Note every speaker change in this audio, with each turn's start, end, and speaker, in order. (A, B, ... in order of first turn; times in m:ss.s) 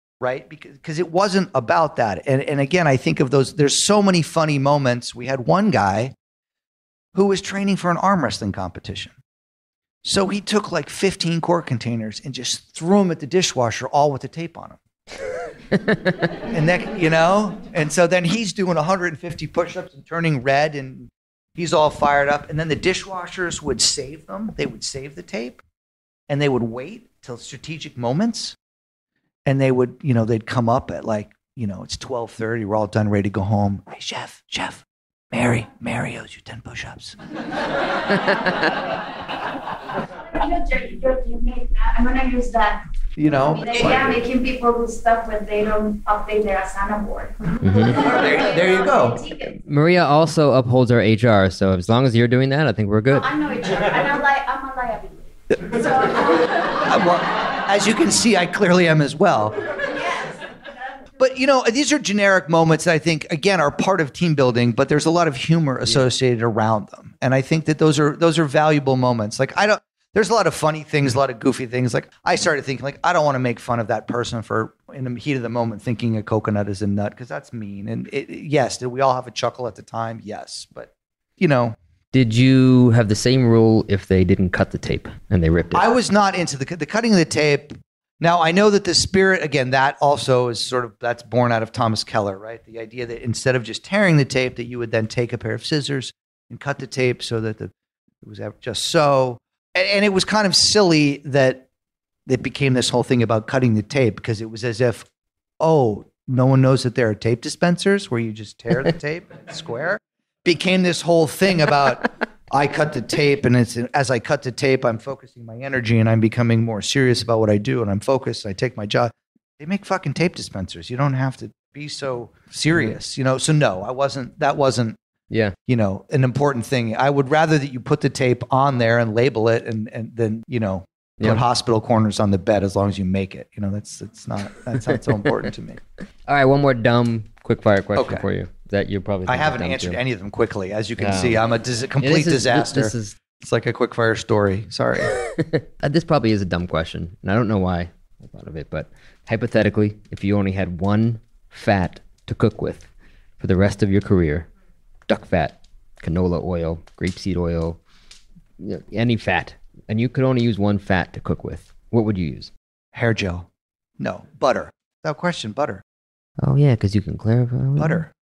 0:00.2-0:06.1 A
0:07.1-0:09.2 A
0:10.0-0:14.8 A
0:15.7-0:16.1 B
0:16.5-0:25.6 A
0:26.3-0:28.6 A
0:29.5-0:37.2 A
0:40.3-0:49.6 C
0:43.2-0:44.2 A
0:47.6-0:48.0 B
0:47.9-0:49.2 A
0:49.5-0:53.3 B
0:53.2-0:56.8 C
0:56.8-0:59.6 A
1:00.0-1:00.3 C
1:01.2-1:21.8 A
1:22.1-1:25.9 B
1:25.7-1:41.7 A
1:42.3-1:45.1 A
1:45.6-2:05.0 A
2:05.3-2:05.6 B
2:05.7-2:15.8 A
2:16.3-2:20.0 B
2:18.0-2:18.2 A
2:19.3-2:25.2 A
2:21.0-2:21.4 B
2:22.0-2:23.2 B
2:25.3-2:32.9 B
2:33.4-2:34.5 B
2:35.1-2:37.8 B
2:38.6-2:42.5 B
2:42.9-2:43.5 A
2:44.0-2:45.8 A
2:46.4-2:48.0 B
2:47.8-2:48.1 A